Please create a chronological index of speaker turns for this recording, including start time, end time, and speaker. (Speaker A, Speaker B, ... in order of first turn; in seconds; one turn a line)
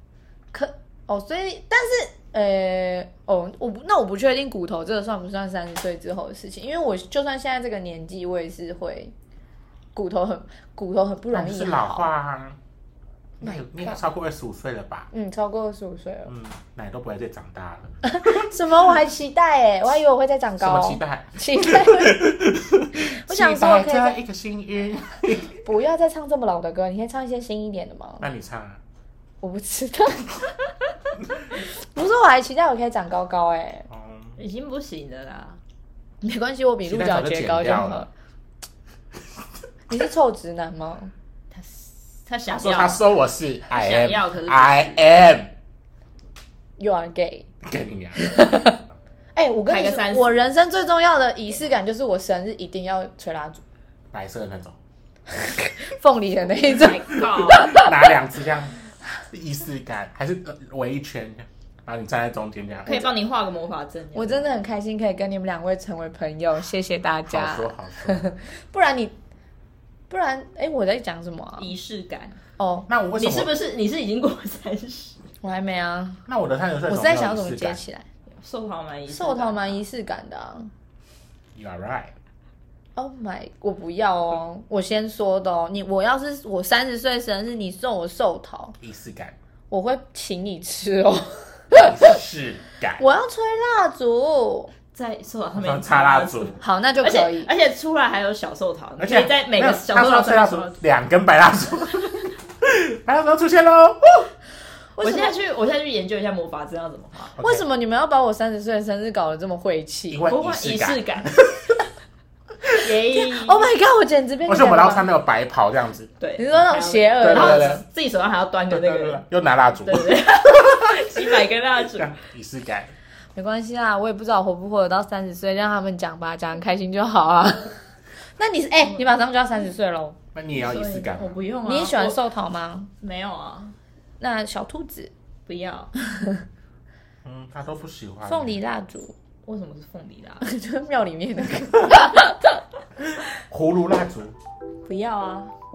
Speaker A: 0.5-9.1
Speaker A: 9.9-12.1
Speaker B: 11.3-12.6
Speaker B: 13.4-15.1
Speaker A: 13.4-14.0
Speaker A: 15.1-16.3
Speaker B: 16.3-17.9
Speaker A: 18.0-22.4
Speaker B: 20.6-25.6
Speaker A: 23.0-24.2
Speaker A: 25.6-28.3
Speaker B: 28.2-28.8
Speaker A: 29.4-30.5
Speaker A: 31.6-33.9
Speaker B: 33.9-34.4
Speaker C: 34.4-35.6
Speaker A: 36.2-38.1
Speaker B: 36.9-38.1
Speaker A: 39.9-41.1
Speaker C: 41.5-43.0
Speaker B: 42.5-45.5
Speaker C: 43.7-45.1
Speaker A: 46.8-47.5
Speaker B: 47.6-48.7
Speaker A: 48.2-48.8
Speaker A: 49.4-53.6
Speaker C: 49.7-50.4
Speaker B: 54.1-54.8
Speaker A: 55.3-57.9
Speaker C: 56.6-57.8
Speaker B: 57.5-58.8
Speaker B: 59.3-63.0
Speaker C: 62.9-64.6
Speaker A: 62.9-63.1
Speaker A: 64.1-69.1
Speaker B: 67.3-68.3
Speaker A: 70.1-71.7
Speaker C: 71.6-72.4
Speaker A: 72.6-72.9
Speaker B: 72.9-73.6
Speaker C: 73.2-75.2
Speaker A: 75.4-76.2
Speaker B: 76.3-77.8
Speaker A: 76.9-78.1
Speaker C: 78.3-79.8
Speaker A: 79.1-80.7
Speaker B: 81.5-82.1
Speaker A: 83.0-88.8
Speaker B: 88.8-89.4
Speaker A: 89.7-92.1
Speaker B: 91.7-93.1
Speaker A: 93.0-94.7
Speaker C: 94.9-100.8
Speaker B: 95.5-96.6
Speaker A: 96.6-97.5
Speaker B: 99.0-104.3
Speaker A: 105.0-105.4
Speaker C: 105.0-107.3
Speaker B: 107.4-107.7
Speaker A: 107.4-110.3
Speaker B: 110.1-111.8
Speaker C: 110.3-111.3
Speaker C: 112.8-113.7
Speaker A: 113.1-115.1
Speaker B: 114.5-116.1
Speaker C: 116.2-119.2
Speaker A: 116.4-117.8
Speaker B: 117.2-117.8
Speaker B: 118.7-120.2
Speaker C: 119.8-122.2
Speaker B: 121.9-122.9
Speaker A: 123.3-130.2
Speaker B: 130.3-131.4
Speaker C: 130.5-132.2
Speaker A: 131.6-132.9
Speaker C: 133.0-133.8
Speaker A: 134.2-135.1
Speaker C: 135.5-135.9
Speaker A: 136.1-136.4
Speaker B: 137.2-138.6
Speaker A: 138.2-139.1
Speaker C: 139.4-140.4
Speaker A: 140.4-142.6
Speaker B: 143.5-144.3
Speaker A: 144.8-145.5